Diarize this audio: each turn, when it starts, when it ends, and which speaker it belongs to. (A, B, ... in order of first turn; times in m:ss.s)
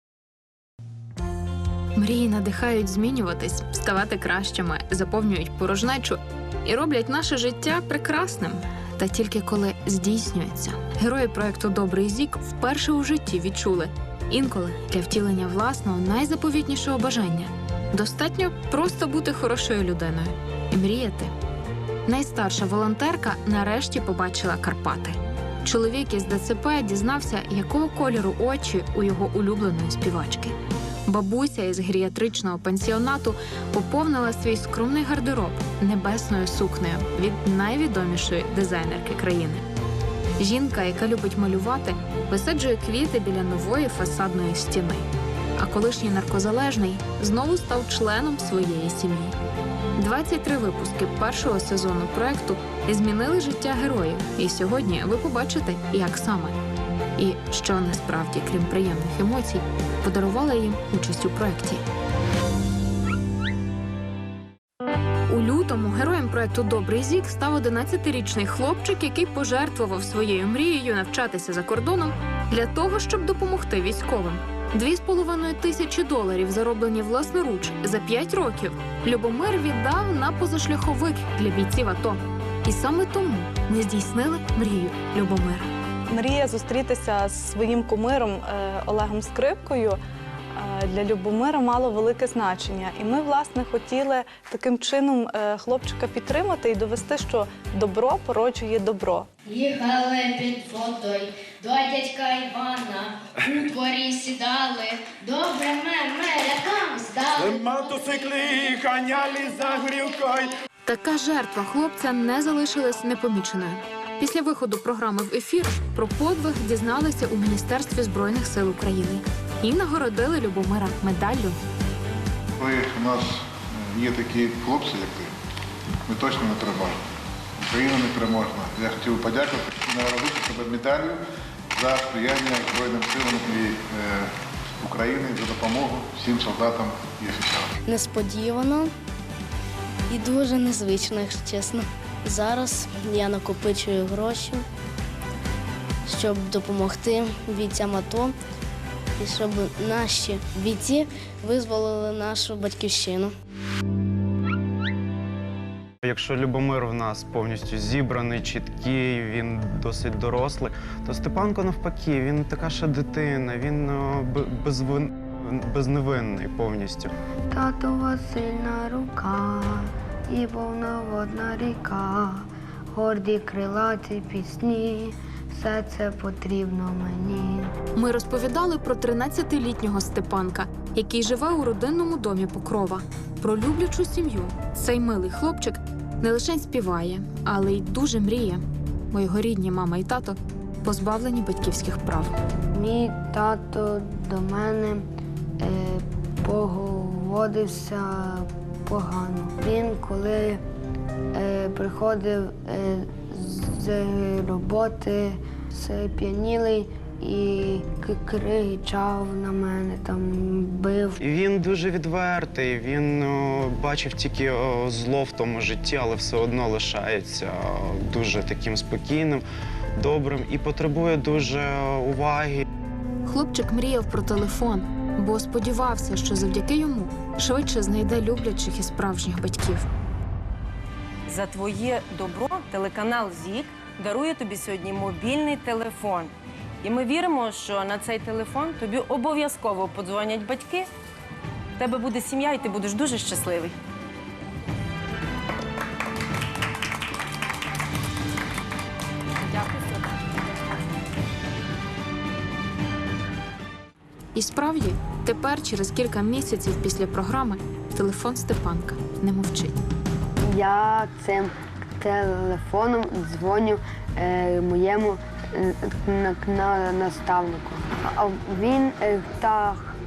0:02.0-0:21.3 A
0:22.1-0:30.6 A
0:31.1-0:39.6 A
0:40.4-0:45.1 A
0:45.6-0:49.4 A
0:50.0-0:56.6 A
0:57.2-1:01.8 A
1:05.3-1:25.7 A
1:26.1-1:30.0 B
1:30.6-1:39.3 B
1:39.5-1:47.5 C
1:50.9-2:01.6 A
2:02.6-2:05.3 D
2:06.1-2:07.0 D
2:07.6-2:11.2 D
2:11.7-2:17.7 D
2:17.9-2:18.9 E
2:20.1-2:24.6 E
2:26.1-2:28.4 E
2:29.2-2:33.3 E
2:36.0-2:47.1 F
2:47.5-2:52.4 G
2:52.9-2:57.7 G
2:58.0-3:12.4 A
3:12.7-3:15.0 G
3:15.6-3:20.6 G
3:21.4-3:31.2 G
3:31.2-3:39.4 F
3:40.0-3:42.6 F
3:43.3-3:49.9 A
3:51.3-4:00.9 H
4:01.8-4:03.8 H
4:14.4-4:19.8 A
4:20.5-4:29.9 G